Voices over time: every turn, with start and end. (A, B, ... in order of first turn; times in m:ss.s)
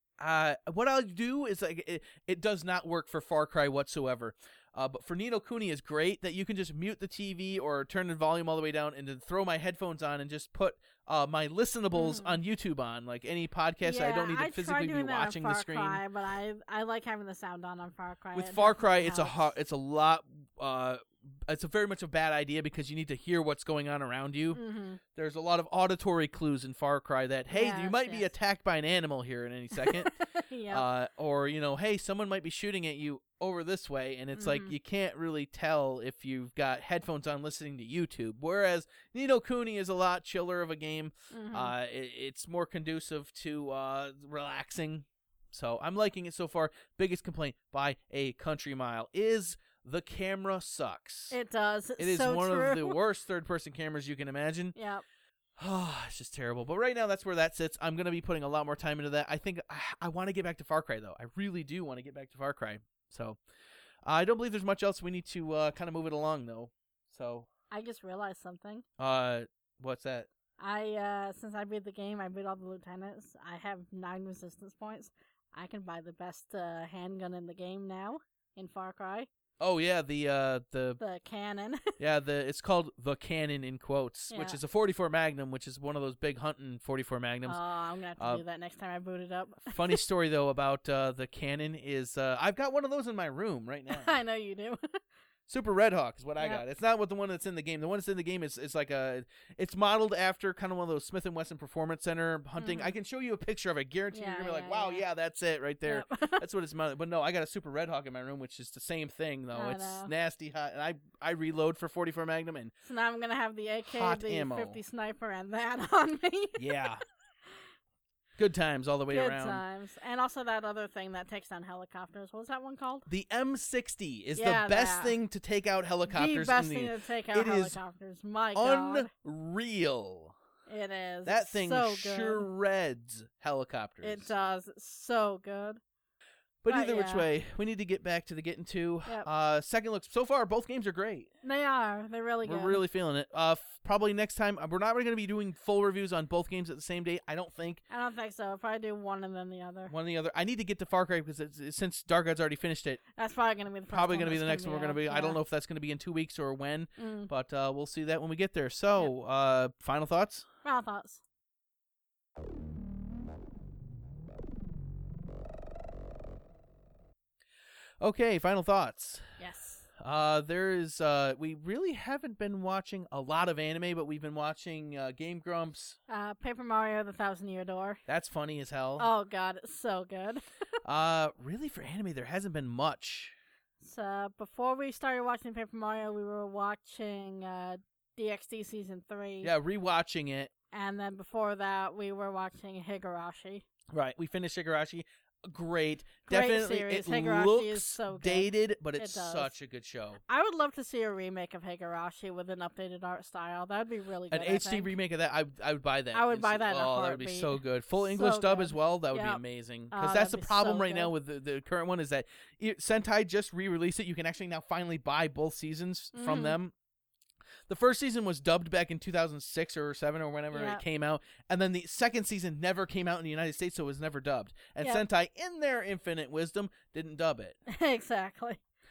0:00.2-0:16.0 A
0:11.9-0:12.4 B
0:13.8-0:19.5 B
0:18.4-0:24.6 A
0:24.5-0:25.0 B
0:25.2-0:30.2 A
0:27.5-0:28.3 B
0:29.8-0:30.8 B
0:30.7-0:51.4 A
0:34.4-0:34.8 B
0:41.3-0:41.7 B
0:51.3-0:53.0 B
0:52.0-0:54.8 A
0:54.8-0:55.0 B
0:55.6-1:03.4 A
1:04.1-1:07.5 A
1:07.7-1:08.8 B
1:09.0-1:10.3 A
1:10.6-1:19.3 B
1:19.6-1:21.0 A
1:21.0-1:21.9 B
1:22.0-1:27.6 A
1:24.3-1:24.6 B
1:27.5-1:30.0 B
1:29.7-1:34.2 A
1:33.9-1:35.0 B
1:35.5-1:52.7 A
1:42.6-1:42.9 B
1:44.1-1:45.0 B
1:45.9-1:46.4 B
1:49.5-1:50.1 B
1:52.8-1:56.7 B
1:53.9-1:54.8 A
1:56.6-1:57.0 A
1:58.4-1:59.6 A
1:59.1-2:03.1 B
2:03.1-2:07.8 A
2:04.4-2:05.2 B
2:06.1-2:09.1 B
2:08.6-2:10.4 A
2:10.7-2:12.5 B
2:11.2-2:14.3 A
2:14.0-2:15.8 B
2:16.6-2:21.3 A
2:16.7-2:17.3 B
2:21.4-2:22.8 B
2:22.4-2:27.8 A
2:27.9-2:29.9 B
2:29.9-2:33.0 A
2:33.2-2:35.4 B
2:33.9-2:40.5 A
2:37.0-2:37.3 B
2:40.6-2:41.2 B
2:48.0-2:49.2 A
2:49.4-2:49.9 B
2:50.0-2:56.0 A
2:56.1-2:58.0 B
2:58.1-2:59.1 A
2:59.0-3:00.4 B
3:00.8-3:03.3 A
3:03.8-3:09.5 B
3:09.4-3:10.5 A
3:10.7-3:13.7 B
3:13.9-3:20.2 A
3:16.3-3:19.5 B
3:20.3-3:24.9 B
3:24.3-3:36.7 A
3:26.1-3:27.6 B
3:28.1-3:29.4 B
3:29.9-3:31.1 B
3:36.1-3:36.6 B
3:37.7-3:47.6 A
3:40.5-3:40.8 B
3:47.7-3:48.6 B